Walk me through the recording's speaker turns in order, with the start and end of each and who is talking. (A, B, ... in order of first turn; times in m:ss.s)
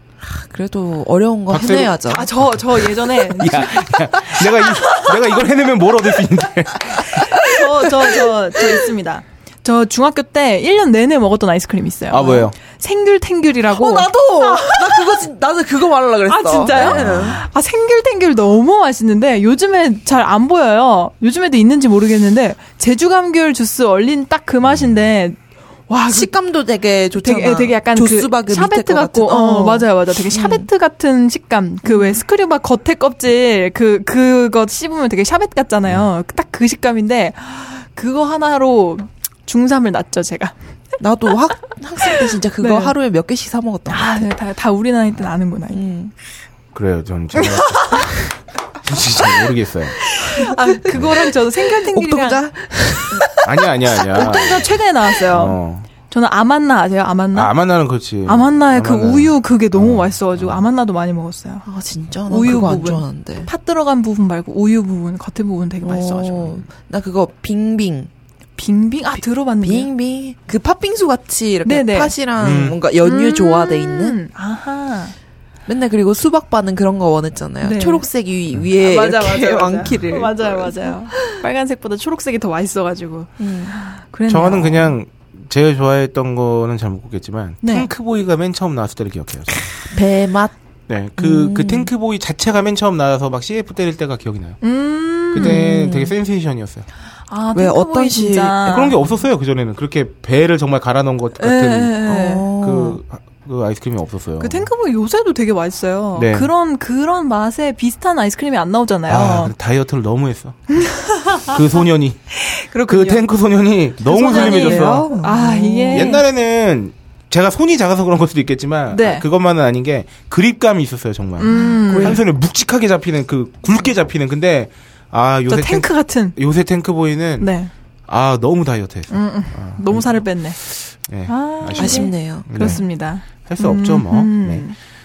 0:00.2-0:02.2 A
0:01.5-0:07.4 B
0:02.1-0:05.4 C
0:07.4-0:15.2 C
0:08.2-0:08.8 A
0:12.1-0:12.6 B
0:13.7-0:17.4 A
0:16.3-0:25.4 C
0:16.8-0:17.4 B
0:24.7-0:25.0 B
0:25.9-0:26.3 C
0:26.1-0:30.7 A
0:27.2-0:40.5 C
0:31.8-0:32.2 A
0:41.0-0:44.3 A
0:42.0-0:43.0 C
0:43.9-0:45.8 C
0:45.7-0:46.1 A
0:46.7-0:48.2 B
0:47.4-0:48.2 C
0:48.8-0:50.0 B
0:50.2-0:53.5 C
0:50.4-0:53.4 A
0:53.4-0:54.7 B
0:54.1-0:57.6 C
0:54.1-0:54.4 A
0:55.3-0:55.9 B
0:57.3-1:00.6 B
0:58.2-1:01.7 C
1:01.6-1:03.5 A
1:02.3-1:06.6 C
1:05.8-1:08.1 A
1:08.6-1:09.9 C
1:09.6-1:14.2 A
1:11.6-1:12.1 C
1:12.4-1:12.8 B
1:13.0-1:15.2 C
1:15.7-1:21.4 A
1:17.6-1:18.1 C
1:18.8-1:24.9 C
1:23.4-1:23.8 A
1:24.3-1:29.6 B
1:27.6-1:27.9 C
1:29.9-1:30.6 A
1:30.9-1:34.6 B
1:31.2-1:31.9 A
1:34.6-1:35.6 C
1:35.3-1:36.9 B
1:35.4-1:36.1 A
1:37.3-1:39.0 C
1:37.5-1:38.6 A
1:38.6-1:42.0 B
1:41.4-1:42.5 C
1:42.0-1:43.0 A
1:42.6-1:44.7 B
1:44.4-1:49.5 C
1:46.2-1:46.5 B
1:49.1-1:55.1 B
1:50.8-1:51.6 C
1:52.4-1:53.2 C
1:54.0-1:56.2 C
1:54.2-1:56.2 A
1:55.9-2:07.5 B
1:58.9-1:59.2 C
2:01.4-2:02.2 C
2:01.5-2:02.2 A
2:05.5-2:06.4 C
2:07.4-2:07.7 C
2:08.1-2:10.3 B
2:09.1-2:10.6 C
2:10.8-2:12.9 B
2:11.3-2:14.8 C
2:11.8-2:12.8 A
2:13.4-2:14.7 B